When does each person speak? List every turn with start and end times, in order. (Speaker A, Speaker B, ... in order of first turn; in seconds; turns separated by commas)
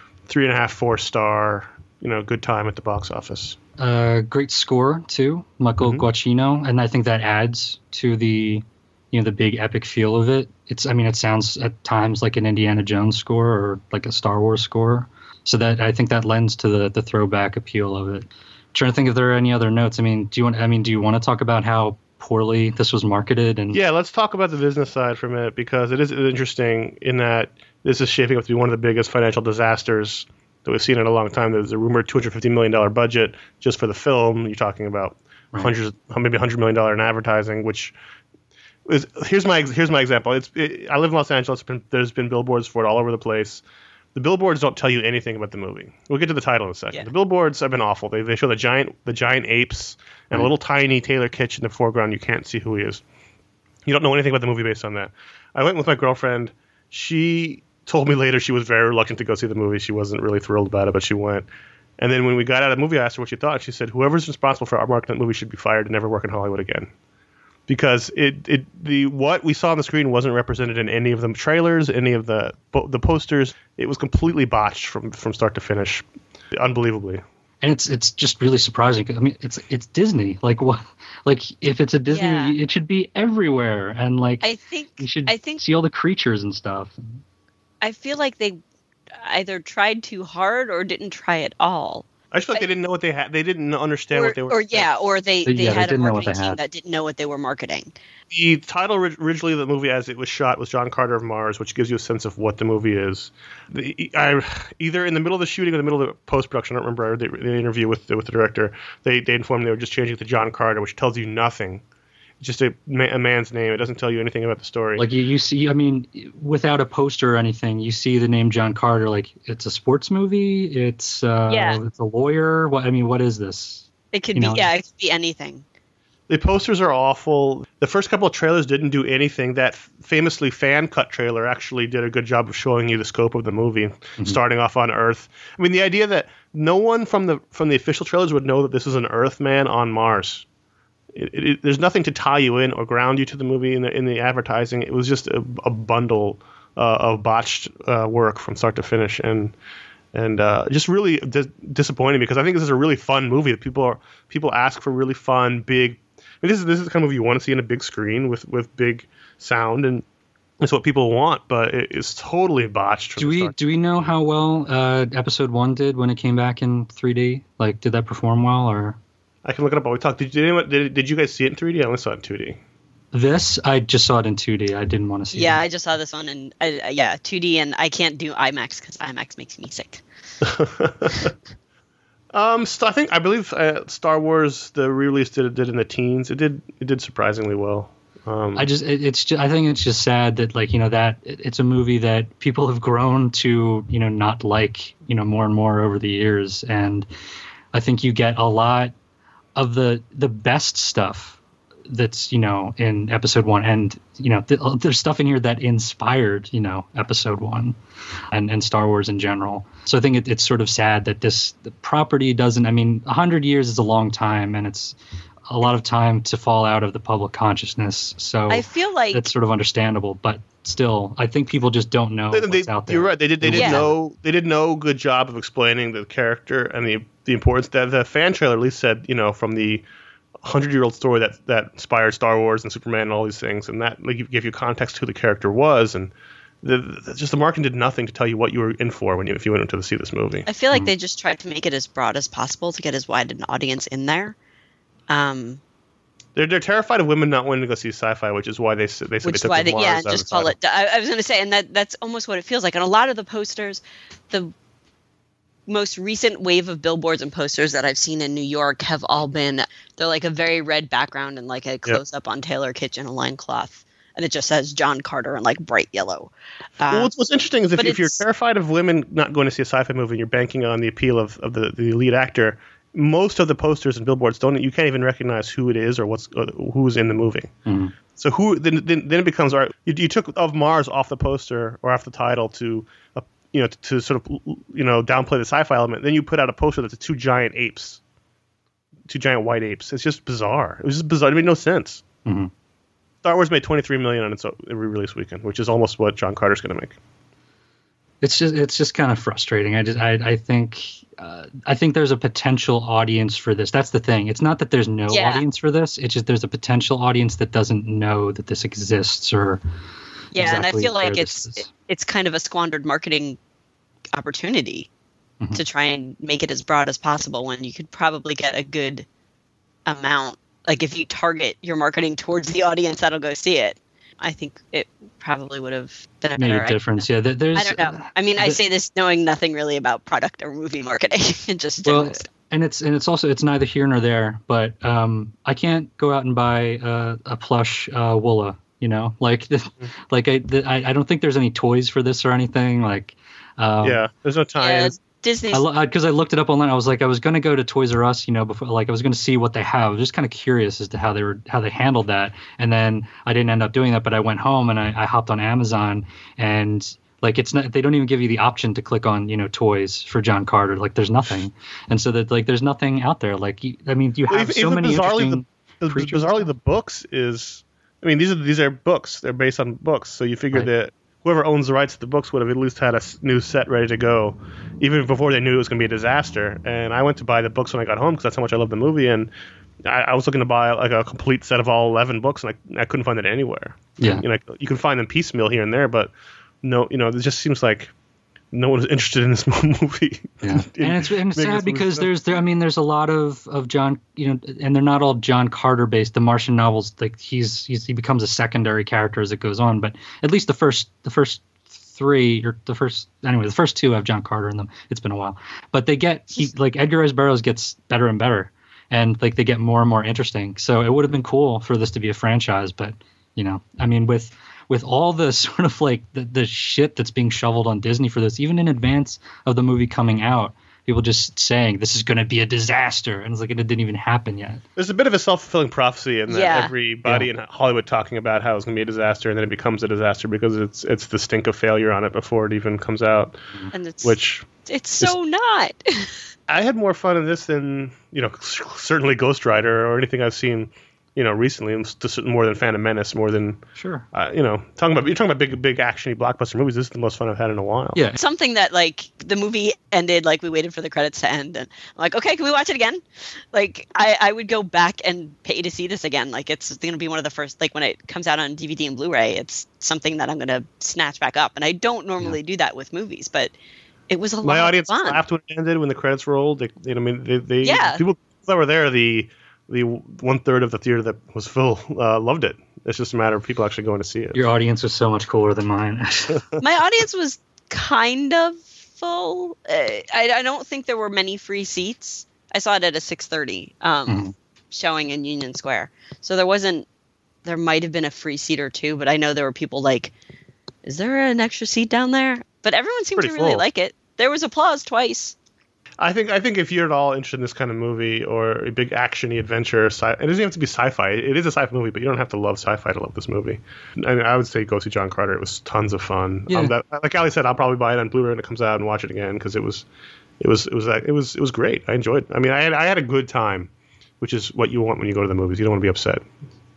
Speaker A: 0.3-3.6, Speaker B: 3.8-23.8, Speaker A: 5.8-6.1, Speaker A: 23.7-37.9, Speaker A: 38.9-43.6, Speaker A: 44.1-53.0, Speaker A: 53.9-61.5, Speaker A: 62.0-66.9, Speaker A: 67.7-77.2, Speaker B: 77.6-84.5, Speaker C: 82.1-82.5, Speaker C: 84.4-85.6, Speaker B: 85.0-87.0, Speaker C: 87.8-88.6, Speaker C: 89.2-92.7, Speaker A: 92.3-94.9, Speaker C: 94.1-97.9, Speaker B: 95.5-96.6, Speaker A: 98.3-111.8, Speaker A: 112.4-115.0, Speaker B: 115.0-124.7, Speaker C: 121.5-121.8, Speaker C: 124.1-125.6, Speaker A: 126.3-140.4, Speaker A: 141.1-149.5, Speaker A: 150.1-160.1, Speaker A: 160.6-163.6, Speaker B: 163.2-169.0, Speaker A: 169.4-172.6, Speaker B: 173.1-175.6, Speaker C: 175.3-180.0, Speaker A: 180.4-181.3, Speaker A: 182.3-188.7, Speaker B: 188.6-197.1, Speaker B: 197.7-198.9, Speaker B: 199.6-207.8, Speaker B: 208.3-215.0, Speaker B: 215.5-223.9, Speaker C: 218.5-219.3, Speaker A: 222.3-229.8, Speaker C: 223.5-223.9, Speaker A: 230.4-240.5, Speaker C: 240.5-244.3, Speaker C: 245.1-245.6, Speaker A: 246.3-250.5, Speaker C: 249.2-254.5, Speaker C: 255.7-267.1, Speaker A: 266.9-277.5, Speaker C: 267.8-268.2, Speaker B: 277.6-277.9, Speaker A: 278.1-288.0, Speaker A: 289.1-292.0, Speaker B: 292.2-292.5, Speaker A: 293.2-297.0, Speaker B: 298.2-309.6, Speaker C: 305.1-305.4, Speaker C: 310.3-313.4, Speaker B: 310.3-311.7, Speaker C: 314.1-314.9, Speaker C: 315.5-319.1, Speaker C: 319.9-332.2, Speaker B: 326.4-328.6, Speaker B: 331.8-344.0, Speaker A: 343.8-344.9, Speaker C: 344.6-345.6, Speaker B: 345.5-366.5, Speaker A: 364.3-379.3, Speaker A: 379.8-387.9, Speaker A: 388.5-392.1, Speaker B: 390.4-424.6, Speaker A: 424.8-433.4, Speaker C: 426.3-426.7, Speaker C: 433.7-436.1, Speaker A: 434.0-434.5, Speaker A: 436.5-443.6, Speaker B: 443.8-444.0, Speaker A: 444.1-448.0, Speaker C: 448.2-453.0, Speaker C: 453.5-463.5, Speaker C: 464.1-465.2, Speaker A: 464.4-474.4, Speaker C: 467.6-468.0, Speaker B: 474.3-476.4, Speaker C: 476.6-486.9, Speaker B: 484.1-484.3, Speaker C: 487.4-490.1, Speaker C: 490.8-495.3, Speaker A: 493.1-493.6, Speaker A: 496.0-509.8, Speaker B: 506.5-506.7, Speaker A: 510.4-513.7, Speaker A: 514.2-516.2